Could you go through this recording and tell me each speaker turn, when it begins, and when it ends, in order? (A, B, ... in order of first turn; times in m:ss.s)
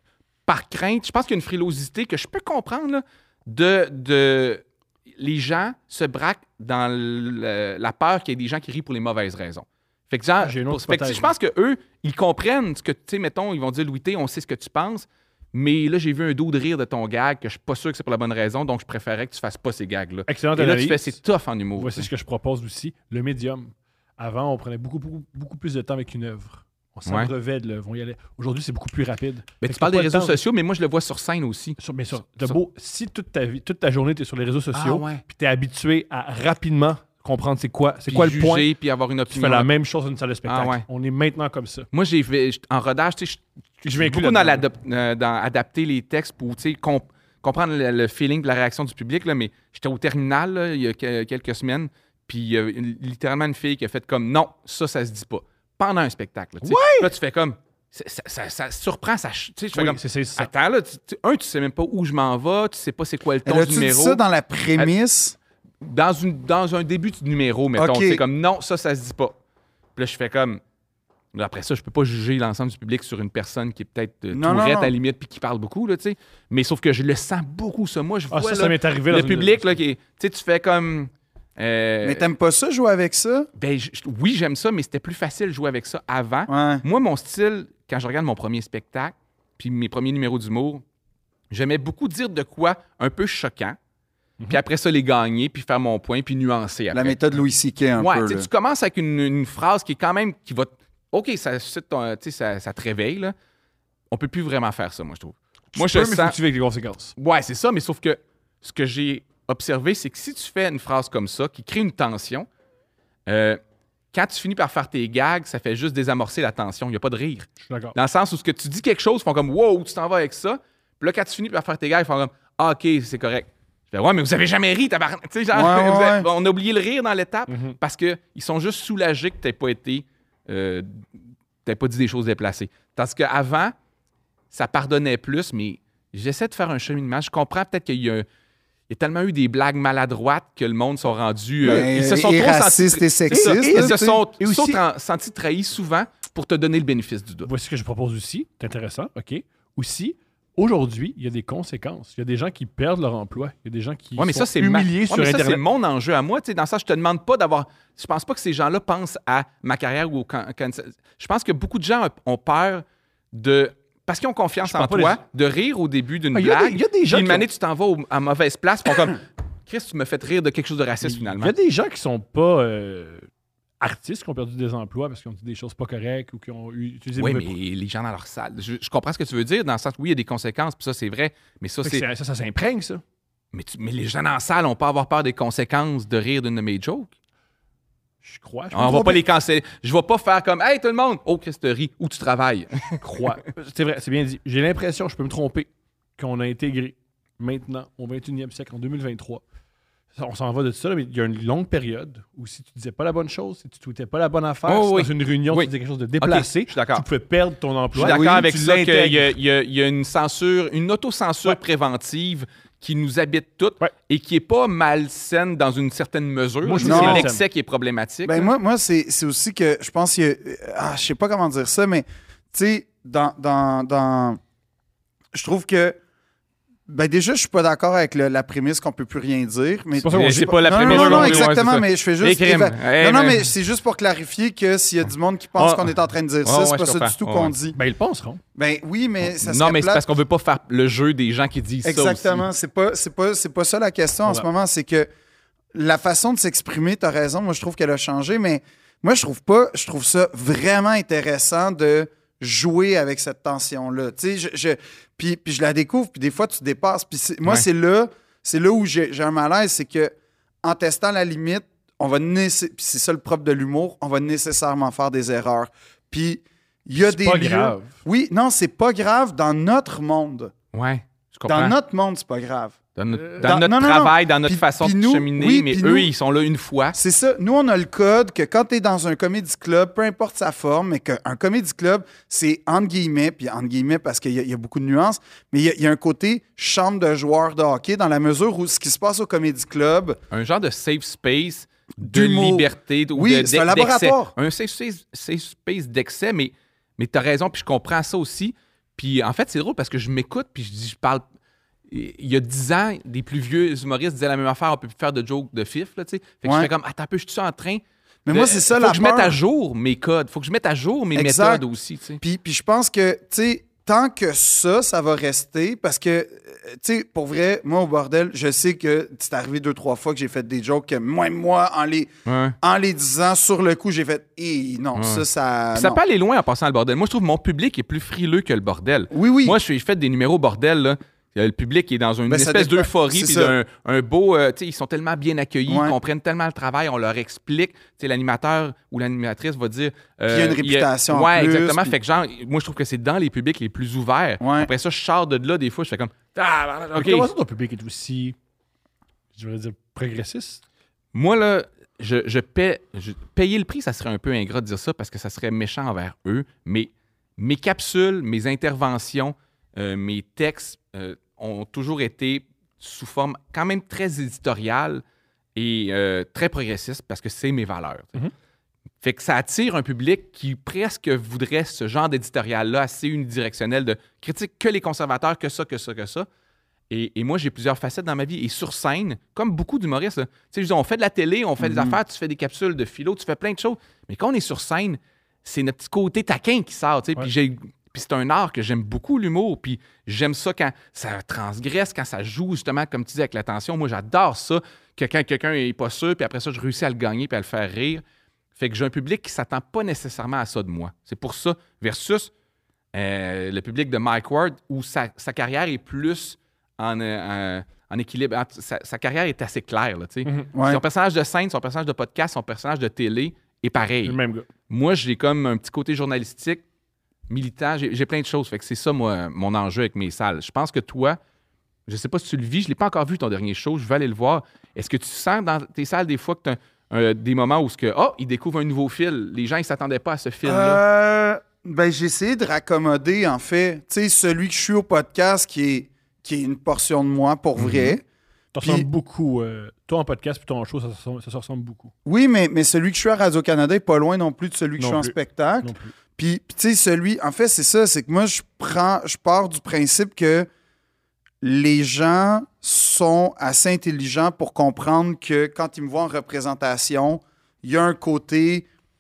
0:00.5-0:04.6 A
0:05.2-0:22.1 A
0:10.4-0:11.3 B
0:20.3-0:21.2 B
0:21.8-0:30.4 B
0:27.1-0:27.3 A
0:29.6-0:31.8 A
0:31.8-0:38.7 B
0:34.7-0:35.2 A
0:38.1-0:39.7 A
0:39.3-0:41.9 B
0:40.5-0:40.8 A
0:41.9-1:04.2 A
0:43.8-0:44.6 B
0:56.6-0:57.1 B
0:59.7-1:00.5 B
1:03.5-1:05.4 C
1:05.8-1:09.4 A
1:07.8-1:08.2 C
1:10.0-1:10.6 A
1:11.3-1:22.3 A
1:14.3-1:14.9 C
1:18.3-1:19.8 B
1:22.0-1:23.5 C
1:23.6-1:30.8 A
1:26.5-1:26.8 C
1:31.5-1:33.8 A
1:34.5-1:37.2 A
1:36.9-1:38.5 C
1:38.0-1:43.4 A
1:44.1-1:46.4 A
1:45.7-1:47.1 B
1:47.2-1:52.5 A
1:53.3-1:53.6 A
1:54.1-2:11.1 A
1:57.6-1:58.0 B
2:05.5-2:06.3 C
2:07.5-2:07.8 B
2:11.6-2:13.8 A
2:14.5-2:18.2 A
2:18.9-2:27.5 A
2:21.6-2:24.0 C
2:23.3-2:24.8 B
2:27.4-2:35.6 B
2:34.2-2:51.5 A
2:44.6-2:45.2 B
2:46.3-2:47.5 B
2:51.0-2:53.3 B
2:53.8-2:57.5 B
2:57.2-3:02.0 A
3:01.8-3:03.0 B
3:03.5-3:07.1 A
3:08.2-3:09.2 B
3:08.7-3:13.0 A
3:13.0-3:19.4 B
3:20.2-3:29.3 B
3:24.7-3:27.1 A
3:27.9-3:38.5 A
3:28.0-3:28.5 C
3:36.6-3:37.4 B
3:36.8-3:37.3 C
3:38.2-3:44.4 C
3:45.3-3:46.0 C
3:46.9-3:57.8 C
3:50.0-3:51.5 B
3:50.1-3:53.4 A
3:55.6-3:55.9 A
3:56.4-3:57.5 A
3:57.7-3:58.4 B
3:58.6-4:00.1 C
3:59.4-4:02.4 A
4:01.8-4:05.1 C
4:05.7-4:30.5 C
4:27.0-4:28.0 B
4:30.7-4:31.8 A
4:31.5-4:32.8 C
4:33.0-4:37.0 A
4:33.4-4:36.1 C
4:37.0-4:50.2 C
4:50.3-5:01.2 A
4:52.0-4:54.3 C
5:01.9-5:12.2 A
5:06.4-5:06.7 C
5:08.3-5:09.4 C
5:11.2-5:11.6 C
5:12.2-5:22.1 C
5:22.3-5:22.6 A
5:22.6-5:26.0 C
5:25.0-5:25.2 A
5:25.8-5:47.3 A
5:29.1-5:29.6 C
5:32.3-5:33.6 C
5:35.7-5:36.0 C
5:40.3-5:42.0 C
5:44.4-5:44.7 C
5:47.0-5:48.4 B
5:49.4-5:50.6 B
5:51.1-6:05.0 A
6:05.6-6:08.2 A
6:09.0-6:16.3 A
6:16.9-6:38.0 A
6:21.6-6:22.0 C
6:38.6-6:42.3 A
6:42.9-6:54.2 A
6:50.5-6:50.8 C
6:54.0-6:54.5 B
6:54.7-6:56.6 A
6:57.3-7:01.2 A
7:01.9-7:10.8 A
7:10.4-7:18.0 C
7:17.6-7:18.0 A
7:18.5-7:21.9 B
7:22.0-7:30.5 C
7:24.8-7:25.9 B
7:31.4-7:38.7 C